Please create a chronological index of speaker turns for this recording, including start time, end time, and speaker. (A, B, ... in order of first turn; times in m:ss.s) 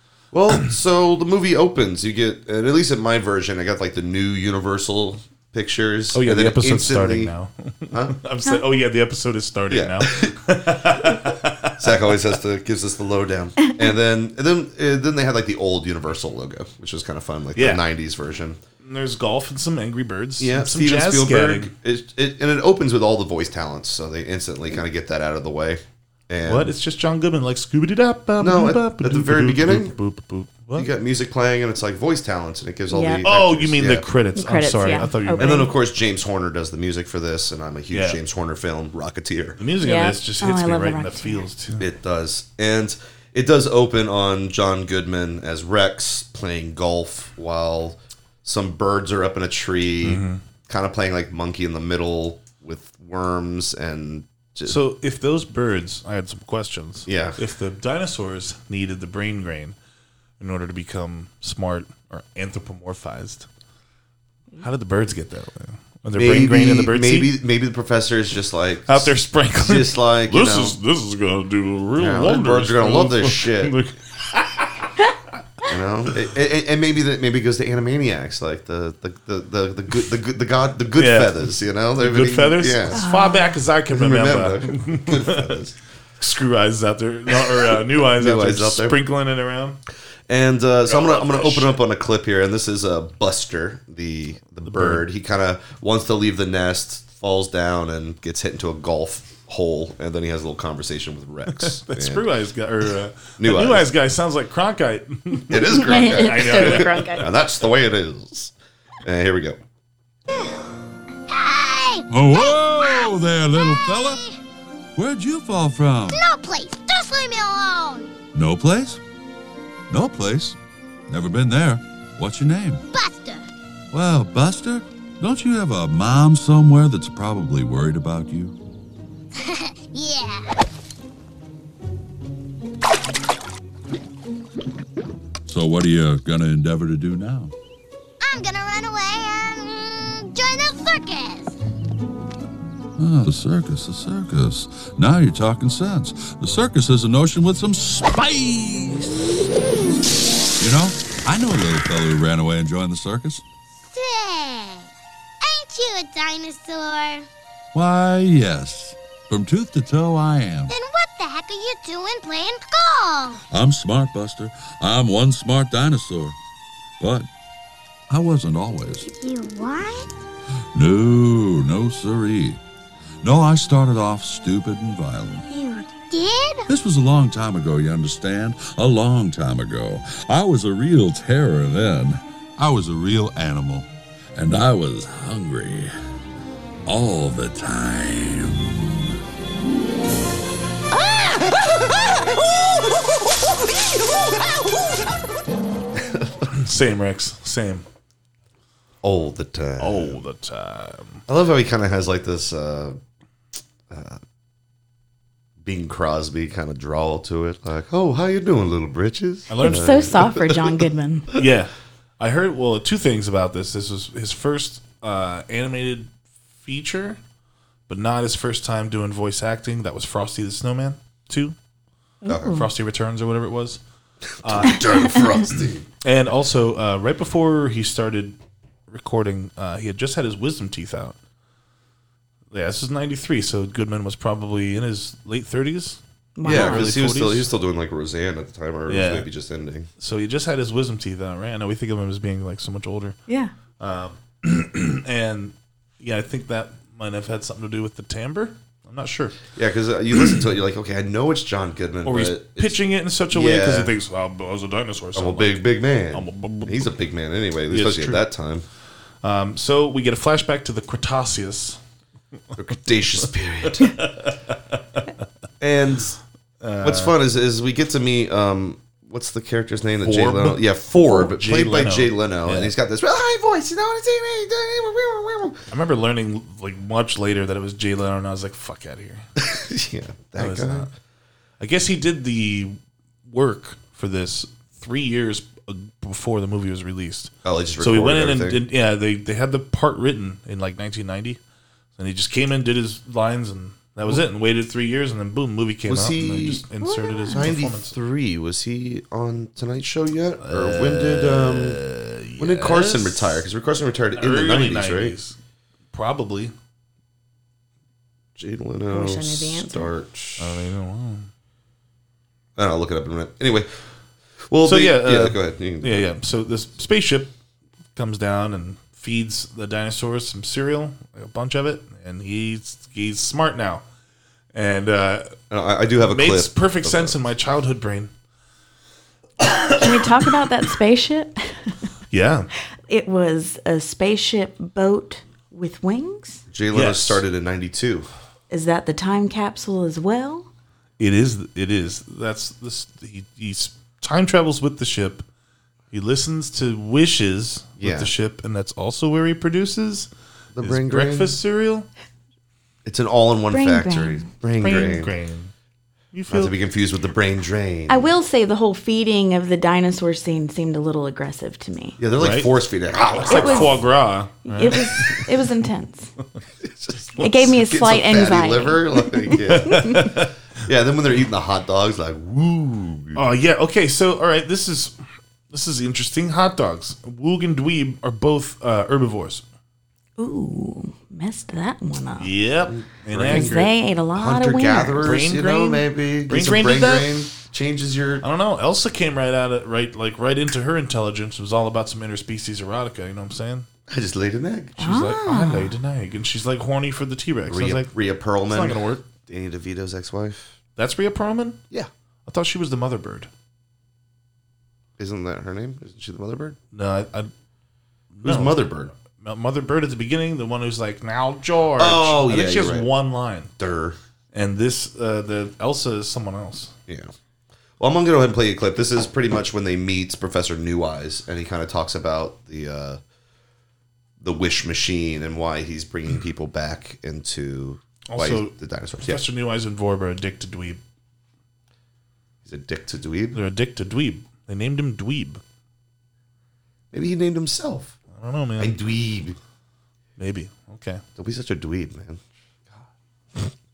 0:00.3-0:07.3 A
0:06.1-0:12.1 B
0:09.7-0:10.4 A
0:11.8-0:18.6 A
0:17.6-0:17.8 B
0:18.8-0:21.7 B
0:20.4-0:26.7 A
0:26.4-0:30.9 B
0:28.4-0:30.0 A
0:30.7-0:34.1 A
0:32.9-0:33.2 C
0:33.2-0:35.7 B
0:34.4-0:35.7 C
0:35.4-0:39.6 A
0:37.9-0:38.2 B
0:39.6-0:41.9 B
0:39.8-0:41.4 C
0:41.8-0:54.8 A
0:50.0-0:50.4 B
0:54.6-0:59.8 B
0:57.1-0:57.4 A
1:00.4-1:03.5 B
1:04.6-1:07.3 B
1:06.1-1:10.8 A
1:08.9-1:14.9 B
1:12.0-1:13.8 A
1:15.7-1:23.0 A
1:20.9-1:25.6 B
1:22.9-1:23.6 C
1:23.9-1:25.7 A
1:26.2-1:29.8 B
1:27.3-1:29.0 A
1:30.3-1:42.3 A
1:30.8-1:31.8 B
1:34.6-1:35.0 B
1:41.5-1:47.3 B
1:43.4-1:43.9 A
1:45.5-1:48.5 A
1:45.7-1:47.3 C
1:49.0-1:49.6 A
1:51.3-1:54.4 D
1:52.1-1:54.2 E
1:55.0-1:56.2 E
1:56.1-1:58.1 D
1:58.3-1:59.0 E
1:59.9-2:00.6 E
2:01.1-2:02.8 E
2:02.9-2:03.5 D
2:03.9-2:08.6 E
2:09.4-2:10.6 D
2:15.5-2:17.5 E
2:18.2-2:21.6 D
2:23.0-2:29.3 E
2:30.6-2:33.4 E
2:33.9-2:34.8 D
2:35.4-2:37.3 D
2:37.7-2:40.7 E
2:40.7-2:43.4 D
2:43.5-2:46.4 E
2:47.0-2:47.3 E
2:48.1-2:49.1 E
2:49.0-2:50.1 D
2:50.7-2:52.6 E
2:53.2-2:55.5 E
2:55.5-2:56.6 D
2:56.7-3:05.9 E
3:06.9-3:08.9 E
3:16.0-3:16.5 A
3:16.5-3:17.8 B
3:19.0-3:20.2 A
3:19.8-3:21.2 B
3:21.3-3:23.0 A
3:23.9-3:24.2 A
3:25.6-3:30.8 A
3:29.5-3:30.2 B
3:29.6-3:31.3 C
3:31.3-3:37.2 B
3:37.9-3:41.6 B
3:42.2-3:42.7 C
3:42.3-3:42.6 A
3:42.4-3:43.8 B
3:44.4-3:45.9 A
3:44.4-3:51.2 B
3:52.5-3:57.5 B
3:56.4-3:56.9 C
3:56.4-3:59.9 A
3:58.9-3:59.3 B
4:00.0-4:03.2 B
4:03.3-4:03.5 C
4:03.8-4:09.4 B
4:09.6-4:12.8 A
4:12.0-4:17.0 B
4:13.3-4:13.9 A
4:15.1-4:18.6 A
4:17.7-4:18.2 B
4:19.2-4:21.8 B
4:22.6-4:24.0 A
4:23.2-4:25.0 B
4:25.6-4:26.2 A
4:26.6-4:27.2 B
4:26.8-4:35.6 A
4:30.0-4:32.7 B
4:35.7-4:39.3 B
4:39.4-4:40.9 A
4:40.4-4:40.9 B
4:41.6-4:51.4 B
4:47.4-4:48.6 A
4:52.0-4:58.0 B
4:55.9-4:56.6 A
4:56.8-4:57.4 C
4:57.3-5:01.8 A
5:00.4-5:03.4 B
5:02.4-5:05.2 A
5:04.1-5:05.4 B
5:05.9-5:06.5 B
5:08.4-5:10.7 A
5:08.9-5:09.9 C
5:10.4-5:11.3 B
5:12.6-5:13.7 A
5:14.5-5:16.0 A
5:14.6-5:17.3 B
5:17.9-5:23.8 B
5:24.5-5:25.4 B
5:25.5-5:27.2 A
5:26.0-5:28.1 B
5:29.4-5:30.4 B
5:29.8-5:31.7 C
5:32.1-5:32.5 B
5:32.9-5:36.4 C
5:36.5-5:38.1 A
5:36.7-5:37.2 B
5:38.5-5:40.5 C
5:41.0-5:45.3 B
5:45.9-5:51.9 B
5:47.8-5:48.1 A
5:50.6-5:51.4 A
5:52.8-5:55.1 A
5:53.5-5:54.3 C
5:54.6-5:55.5 B
5:56.1-5:56.5 B
5:56.3-5:58.1 A
5:57.9-6:02.0 C
6:02.0-6:03.9 A
6:02.2-6:02.5 B
6:03.1-6:05.3 B
6:03.2-6:03.8 C
6:04.4-6:06.1 C
6:06.8-6:13.2 A
6:07.2-6:09.4 C
6:09.4-6:10.3 B
6:13.1-6:14.9 B
6:15.5-6:19.4 B
6:20.2-6:22.3 C
6:22.2-6:23.7 B
6:22.7-6:28.2 A
6:23.3-6:25.1 C
6:25.0-6:27.2 B
6:28.2-6:33.7 B
6:33.9-6:34.8 A
6:34.8-6:37.9 B
6:34.8-6:35.7 C
6:37.5-6:40.6 A
6:38.5-6:39.0 B
6:40.8-6:41.6 B
6:42.3-6:43.3 B
6:45.0-6:46.6 A
6:46.7-6:47.3 B
6:48.1-6:53.5 B
6:48.2-6:48.9 A
6:51.8-6:52.9 A
6:53.6-6:54.0 A
6:54.3-6:56.7 B
6:57.8-7:03.0 A
7:04.2-7:09.2 A
7:08.1-7:10.8 B
7:12.4-7:13.4 A
7:13.3-7:15.4 B
7:16.9-7:18.0 A
7:18.1-7:18.8 B
7:18.6-7:19.4 A
7:20.2-7:21.0 B
7:21.2-7:23.5 A